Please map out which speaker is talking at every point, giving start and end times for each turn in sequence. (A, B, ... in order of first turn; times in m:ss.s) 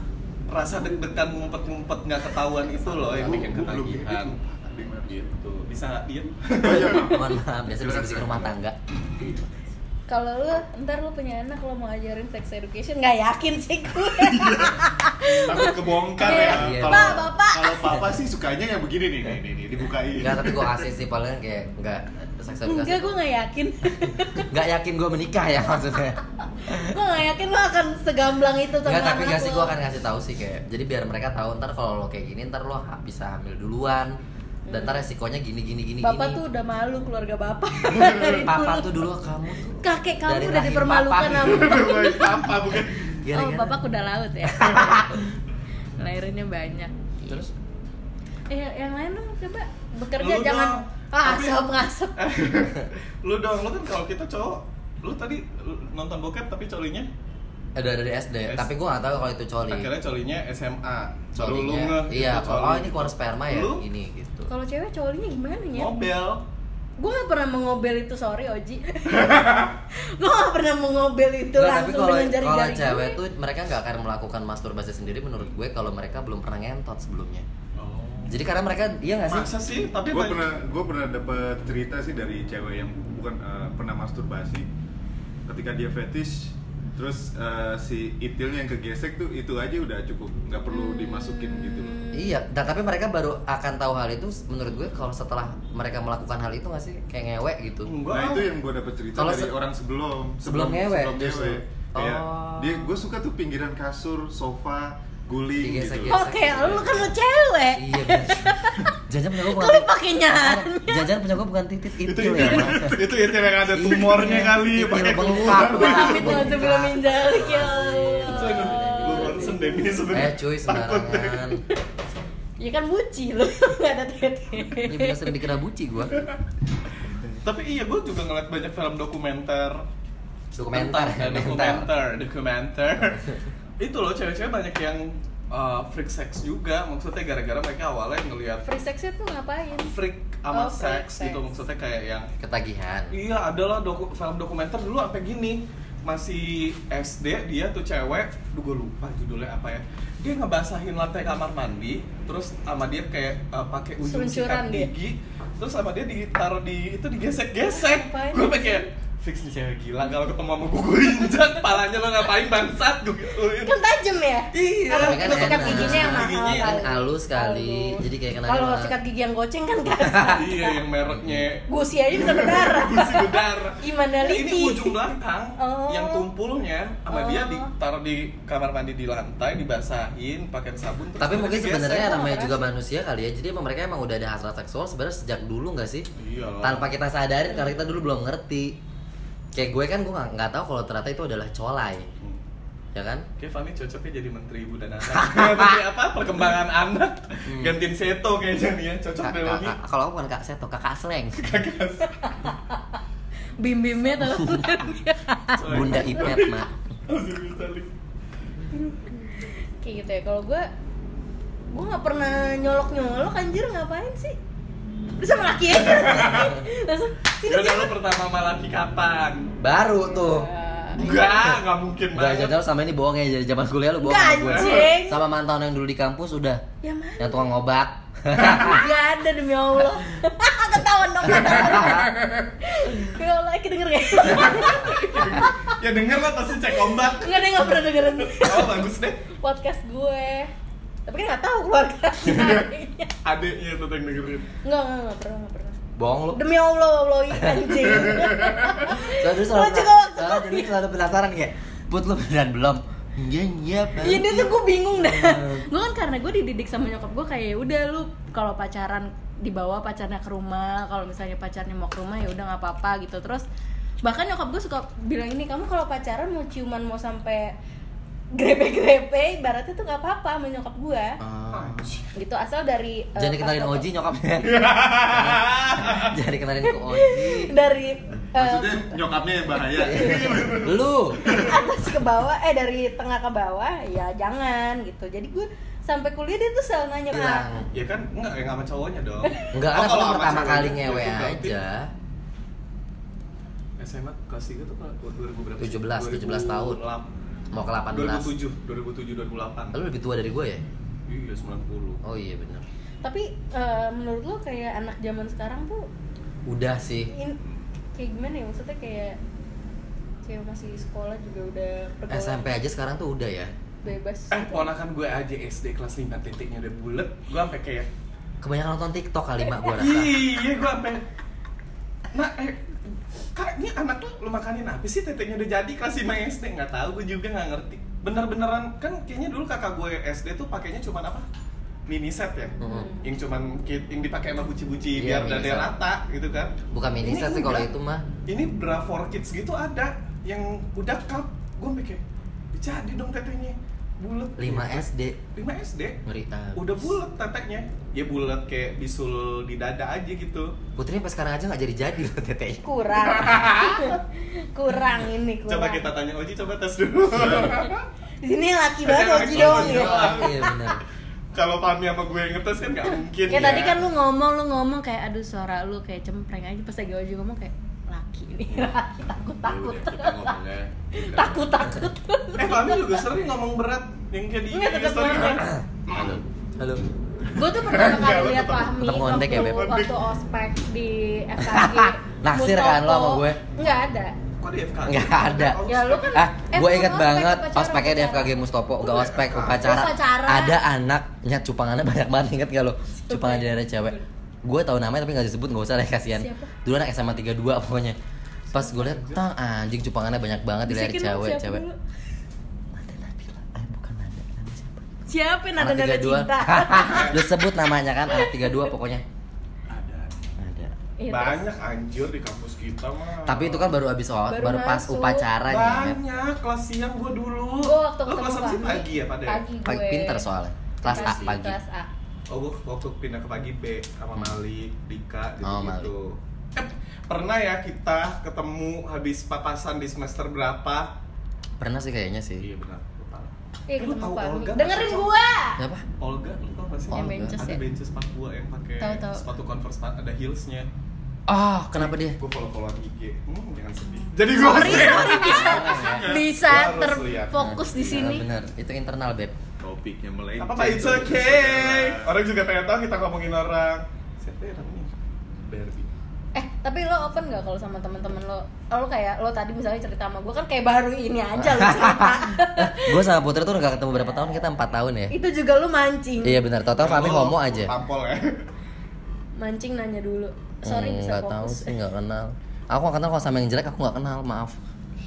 0:00.5-0:04.3 A
0:02.9-0:05.3 B
0:05.1-0:07.1 A
0:06.6-0:08.6 B
0:06.8-0:08.7 C
0:10.1-0:17.8 D
0:14.2-0:14.7 B
0:15.4-0:20.9 B
0:15.5-0:16.9 A
0:16.4-0:17.2 C
0:20.1-0:23.1 C
0:22.7-0:24.5 D
0:24.5-0:27.0 C
0:26.6-0:29.8 D
0:28.9-0:34.1 C
0:34.6-0:35.1 D
0:34.7-0:36.4 C
0:36.0-0:38.9 D
0:37.9-0:41.8 C
0:39.8-0:42.4 D
0:41.4-0:43.2 A
0:42.7-0:43.8 C
0:43.3-0:45.2 D
0:44.4-0:45.2 C
0:46.0-0:46.9 D
0:47.2-0:47.5 C
0:48.5-0:52.2 D
0:50.2-0:57.1 A
0:57.8-0:59.9 C
0:59.7-1:03.8 A
1:01.3-1:04.5 C
1:04.5-1:05.9 D
1:05.7-1:06.4 A
1:07.0-1:13.2 D
1:11.5-1:17.4 C
1:17.8-1:18.4 A
1:18.3-1:19.5 C
1:19.3-1:20.4 A
1:20.0-1:24.7 B
1:25.5-1:32.0 B
1:30.7-1:32.3 D
1:32.1-1:37.9 C
1:37.9-1:38.6 A
1:38.1-1:46.2 B
1:39.1-1:39.5 C
1:40.4-1:42.9 C
1:45.6-1:47.1 C
1:46.1-1:49.0 D
1:47.7-1:53.0 C
1:49.5-1:51.1 D
1:52.0-1:56.6 A
1:53.7-2:01.6 C
1:55.7-1:59.8 D
1:58.3-2:01.5 A
2:02.6-2:05.3 D
2:04.9-2:06.3 C
2:07.4-2:09.8 A
2:10.5-2:11.9 C
2:10.6-2:18.6 A
2:18.6-2:19.9 D
2:19.9-2:22.3 A
2:20.5-2:21.4 D
2:22.4-2:23.1 C
2:23.1-2:43.8 A
2:34.0-2:34.9 D
2:37.7-2:38.9 D
2:43.6-2:50.8 D
2:44.5-2:46.8 A
2:44.9-2:48.9 C
2:50.0-2:50.4 C
2:50.3-3:02.1 A
2:51.7-2:56.2 D
2:57.1-2:57.7 D
3:01.2-3:06.0 C
3:01.6-3:02.6 D
3:06.2-3:06.9 A
3:06.6-3:08.7 C
3:09.5-3:12.1 C
3:12.9-3:13.2 C
3:13.4-3:19.8 A
3:15.1-3:15.8 C
3:17.5-3:17.8 C
3:19.2-3:21.5 C
3:21.4-3:22.4 A
3:22.2-3:22.8 D
3:23.6-3:26.4 D
3:24.3-3:24.8 C
3:25.5-3:27.9 A
3:25.7-3:26.7 C
3:28.9-3:30.7 D
3:31.7-3:34.4 D
3:35.2-3:37.9 D
3:35.7-3:36.6 A
3:37.4-3:39.5 A
3:39.6-3:40.5 C
3:39.9-3:41.2 D
3:41.0-3:42.6 A
3:42.1-3:46.6 C
3:44.0-3:45.2 D
3:44.5-3:44.9 A
3:46.8-3:47.5 D
3:47.2-3:48.9 C
3:48.4-3:55.8 D
3:51.3-3:52.1 C
3:54.3-3:59.2 A
3:56.9-3:58.8 D
3:59.4-4:00.5 D
4:01.1-4:03.1 D
4:03.2-4:04.4 A
4:04.6-4:05.8 D
4:06.0-4:06.4 C
4:06.3-4:10.7 D
4:07.3-4:15.6 C
4:14.0-4:23.4 D
4:24.0-4:27.5 D
4:28.3-4:31.2 D
4:31.2-4:31.9 C
4:31.5-4:32.1 A
4:32.1-4:33.8 D
4:33.2-4:34.6 C
4:34.4-4:36.2 A
4:35.1-4:37.5 C
4:36.6-4:40.5 D
4:38.4-4:41.6 B
4:39.8-4:41.2 C
4:40.0-4:40.8 A
4:41.2-4:47.5 D
4:47.1-4:47.7 C
4:47.7-4:51.6 A
4:49.2-4:49.5 D
4:49.5-4:51.9 C
4:53.8-4:57.1 A
4:55.6-4:56.8 C
4:57.5-4:58.3 C
4:57.9-4:59.8 A
4:59.7-5:00.6 C
5:01.1-5:02.0 A
5:02.0-5:02.6 C
5:03.0-5:05.9 D
5:06.5-5:07.1 C
5:07.1-5:07.4 D
5:07.9-5:09.2 D
5:10.2-5:12.4 D
5:12.1-5:13.5 C
5:13.8-5:14.7 D
5:14.3-5:17.9 A
5:18.4-5:20.2 C
5:19.7-5:21.0 A
5:22.1-5:22.6 A
5:23.3-5:31.3 A
5:31.9-5:37.7 A
5:32.6-5:32.9 C
5:32.6-5:33.0 D
5:35.0-5:35.7 C
5:36.7-5:38.0 C
5:38.3-5:42.0 A
5:42.5-5:46.0 A
5:44.4-5:45.2 C
5:46.0-5:46.9 C
5:46.5-5:50.5 A
5:50.8-5:52.6 C
5:52.6-5:55.9 D
5:53.2-5:53.5 C
5:53.2-5:53.9 A
5:55.5-5:57.8 A
5:57.2-5:57.6 C
5:58.2-6:00.4 D
5:58.8-6:00.5 A
5:59.3-6:00.8 C
6:01.3-6:03.8 A
6:03.3-6:10.4 D
6:09.5-6:11.3 A
6:09.5-6:09.8 B
6:10.9-6:13.0 D
6:12.4-6:15.5 A
6:14.5-6:15.5 D
6:15.4-6:16.8 C
6:17.3-6:24.1 D
6:17.7-6:19.9 A
6:18.0-6:18.5 B
6:18.8-6:19.8 C
6:21.4-6:23.4 C
6:24.4-6:26.2 A
6:24.8-6:25.6 C
6:25.6-6:28.3 D
6:26.1-6:38.0 C
6:28.8-6:29.8 A
6:29.6-6:30.6 D
6:33.0-6:34.0 D
6:36.2-6:36.5 D
6:38.5-6:41.6 C
6:38.6-6:39.2 A
6:40.6-6:41.8 D
6:42.7-6:44.8 C
6:45.1-6:47.2 D
6:45.6-6:49.0 C
6:46.9-6:47.2 A
6:48.1-6:48.4 D
6:49.7-6:50.2 B
6:50.4-6:50.7 C
6:51.0-6:51.4 D
6:51.1-6:53.7 A
6:53.2-6:56.0 C
6:54.3-6:55.2 D
6:55.5-6:59.4 A
6:57.6-7:00.2 D
6:59.6-7:01.6 C
7:00.8-7:01.9 D
7:00.9-7:01.3 A
7:02.3-7:10.9 A
7:05.4-7:05.9 C
7:11.6-7:12.4 C
7:12.4-7:15.1 A
7:13.7-7:15.6 D
7:15.6-7:15.8 C
7:16.0-7:20.7 A
7:16.9-7:17.4 C
7:16.9-7:17.6 D
7:18.8-7:19.2 D
7:21.3-7:22.2 C
7:21.7-7:27.8 A
7:24.3-7:28.2 D
7:24.4-7:26.1 C
7:25.0-7:26.3 B
7:27.3-7:29.3 C
7:29.6-7:32.1 B
7:30.4-7:34.9 A
7:35.4-7:35.9 A
7:36.3-7:43.0 D
7:41.4-7:45.1 C
7:45.1-7:46.4 D
7:46.2-7:47.7 C
7:46.8-7:48.4 A
7:49.4-7:51.7 D
7:50.6-7:54.6 C